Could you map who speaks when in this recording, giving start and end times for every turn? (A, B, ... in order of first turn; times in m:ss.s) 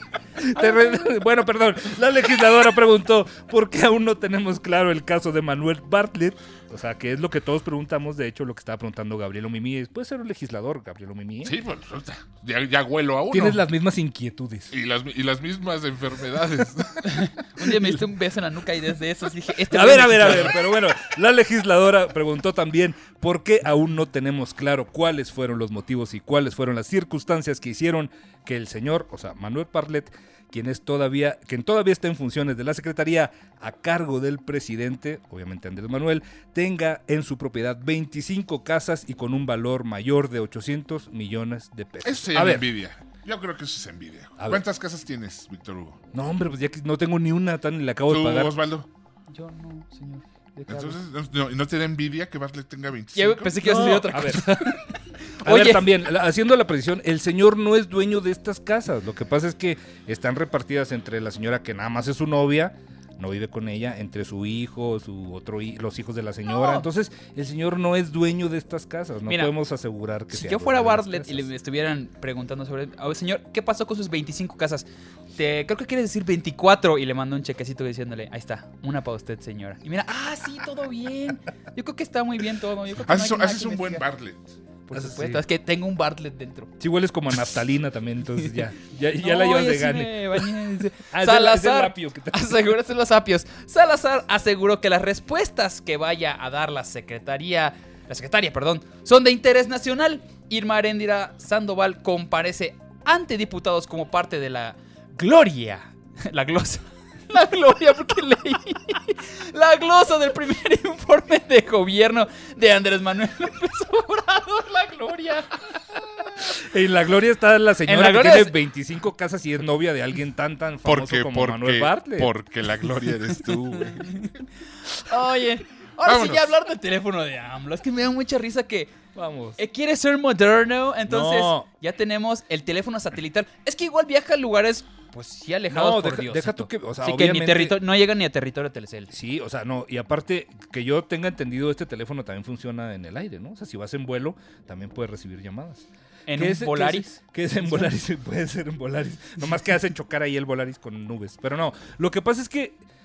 0:00.4-0:11.6 A
0:00.6-0:01.2 B
0:11.4-0:13.6 C
0:13.3-0:14.7 A
0:14.7-0:17.3 C
0:17.1-0:20.6 B
0:19.7-0:42.7 A
0:42.0-0:46.0 C
0:46.1-0:48.6 A
0:48.1-0:48.9 C
0:49.3-0:51.0 B
0:50.7-0:53.7 C
0:53.2-0:54.9 B
0:53.6-0:54.8 A
0:55.4-0:55.9 B
0:55.4-1:11.5 A
1:06.5-1:06.9 B
1:09.3-1:09.5 B
1:10.3-1:24.0 B
1:23.0-1:24.6 C
1:24.9-1:26.7 B
1:24.9-1:25.4 A
1:26.8-1:32.6 A
1:29.2-1:56.4 B
1:56.4-2:02.3 A
1:57.9-1:58.6 B
2:00.8-2:04.2 C
2:03.8-2:04.3 B
2:04.9-2:09.0 B
2:06.0-2:06.5 C
2:09.1-2:09.6 A
2:09.6-2:19.1 B
2:11.1-2:11.7 A
2:15.7-2:17.8 A
2:19.1-2:32.8 A
2:26.3-2:27.2 B